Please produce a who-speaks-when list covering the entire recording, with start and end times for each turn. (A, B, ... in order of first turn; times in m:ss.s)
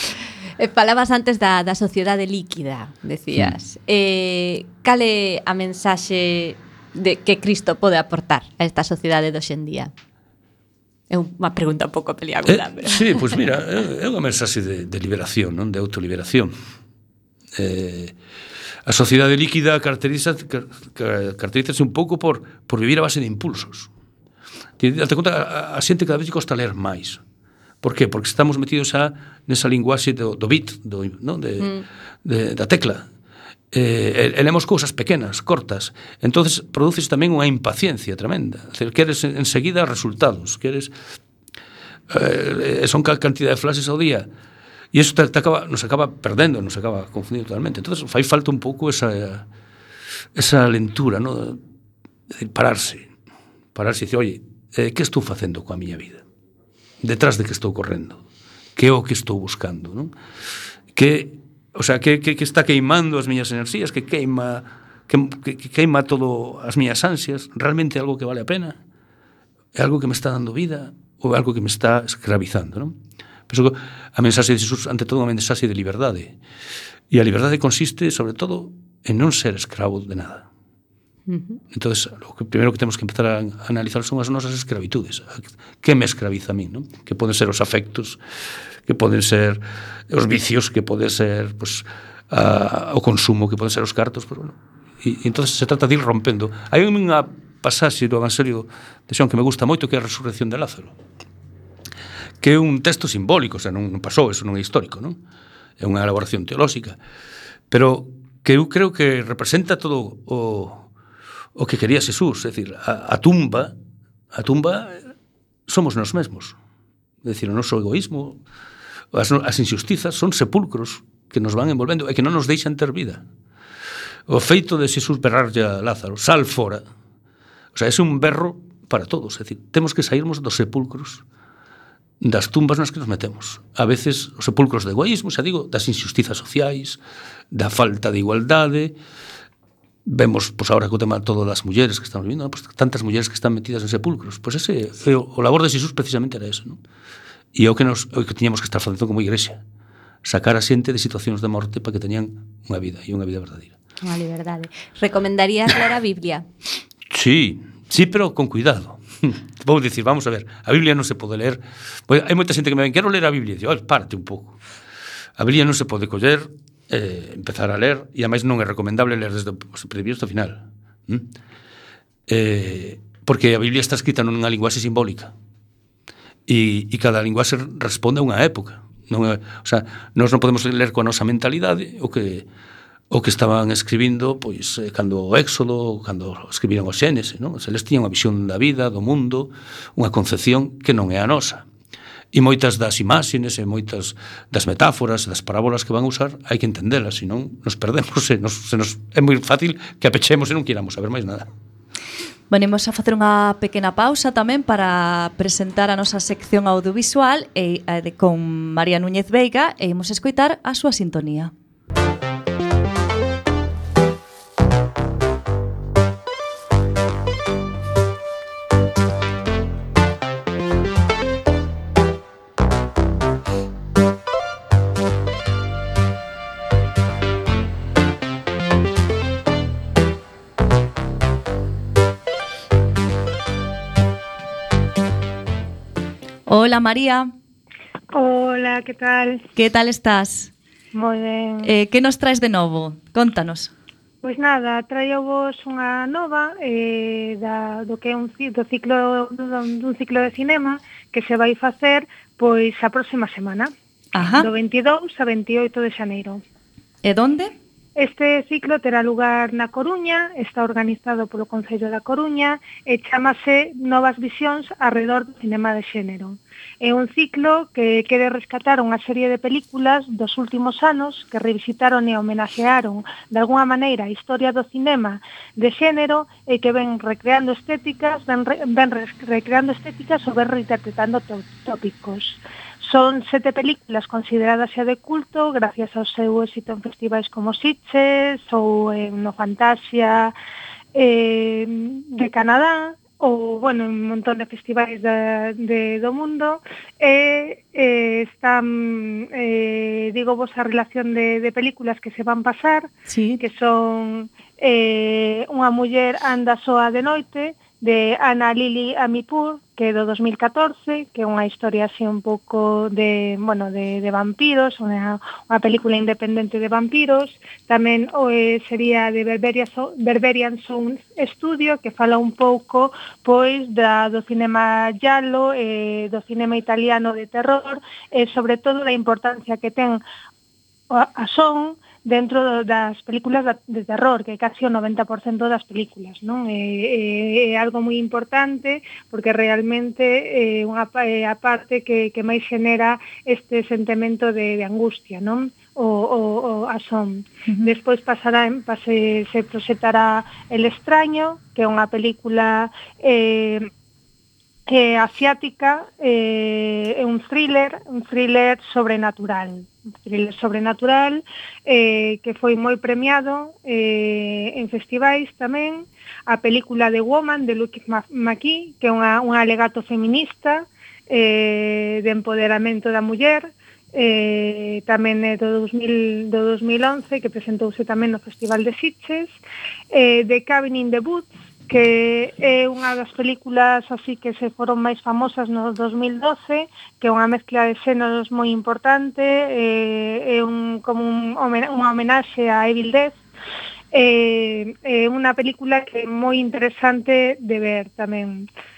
0:00.6-0:09.9 A
0:11.1-0:13.3 A
0:12.5-0:16.5 B
0:17.6-0:18.1 B
0:18.9-0:23.9 B
0:24.8-0:27.2 B
0:27.8-0:31.7 B
0:32.2-0:33.1 B
0:33.7-0:40.9 B
0:42.1-0:44.3 B
0:44.9-0:49.5 B
0:50.4-0:51.6 B
0:52.3-0:53.1 B
0:53.7-0:56.2 B
0:57.0-0:58.2 B
0:58.8-1:00.1 B
1:00.9-1:08.8 B
1:09.8-1:13.0 B
1:13.5-1:16.4 B
1:17.1-1:20.5 B
1:21.3-1:21.6 A
1:21.7-1:28.2 B
1:28.9-1:41.0 B
1:42.4-1:45.2 B
1:45.8-1:47.0 B
1:47.7-1:50.9 B
1:51.6-1:53.7 B
1:54.3-1:55.1 B
1:55.7-1:56.6 B
1:57.2-1:58.4 B
1:59.1-2:03.2 B
2:04.3-2:06.8 B
2:07.7-2:11.2 B
2:12.2-2:17.0 B
2:17.5-2:19.0 B
2:20.1-2:26.8 B
2:27.5-2:29.6 B
2:30.2-2:33.7 B
2:34.0-2:36.4 A
2:37.1-2:44.6 B
2:45.4-2:51.3 B
2:52.3-2:55.3 B
2:56.5-3:02.4 B
3:03.1-3:11.6 B
3:12.3-3:21.5 B
3:22.5-3:31.5 C
3:56.5-3:57.3 C
3:58.1-3:59.4 D
3:59.6-4:00.5 C
4:00.9-4:01.7 D
4:01.6-4:03.7 C
4:04.2-4:13.7 D
4:14.2-4:14.5 C
4:14.4-4:16.4 D
4:17.0-4:17.6 C
4:18.0-4:50.4 D
4:51.0-5:30.0 D
5:03.1-5:03.4 C
5:30.9-5:53.7 D
5:54.7-6:19.4 D
6:19.9-6:33.2 D
6:33.9-6:38.5 D